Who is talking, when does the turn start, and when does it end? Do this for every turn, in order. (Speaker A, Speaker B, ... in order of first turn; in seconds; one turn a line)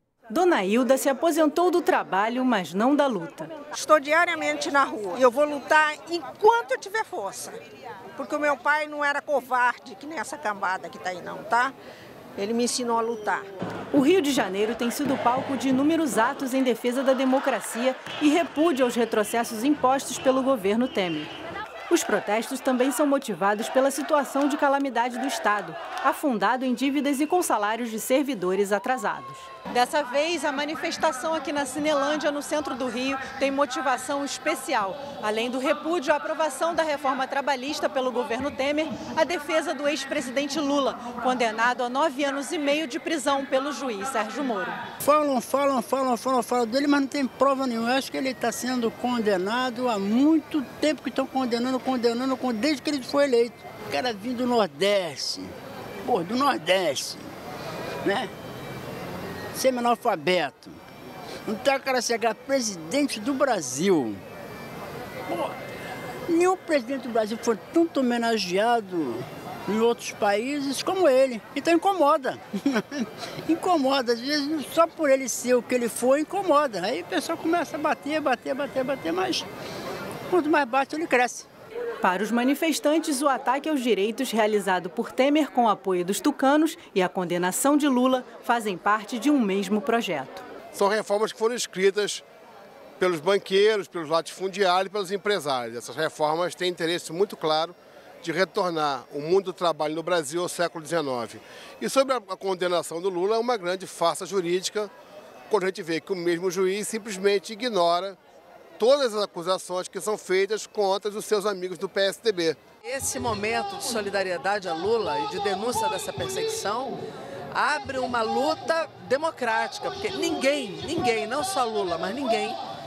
Speaker A: 0.3-3.5
Speaker B: 3.7-7.5
Speaker B: 8.1-11.8
Speaker B: 12.4-13.4
Speaker A: 13.9-21.3
Speaker A: 21.9-44.8
Speaker C: 45.0-57.3
Speaker C: 58.0-58.3
Speaker C: 59.5-60.8
Speaker C: 61.5-64.2
Speaker C: 65.3-65.5
Speaker C: 66.3-79.5
Speaker C: 80.3-81.5
Speaker A: 82.0-90.4
Speaker D: 90.7-92.2
Speaker D: 93.0-104.9
Speaker D: 105.5-108.2
Speaker D: 108.8-112.6
Speaker E: 112.8-117.0
Speaker E: 117.5-122.6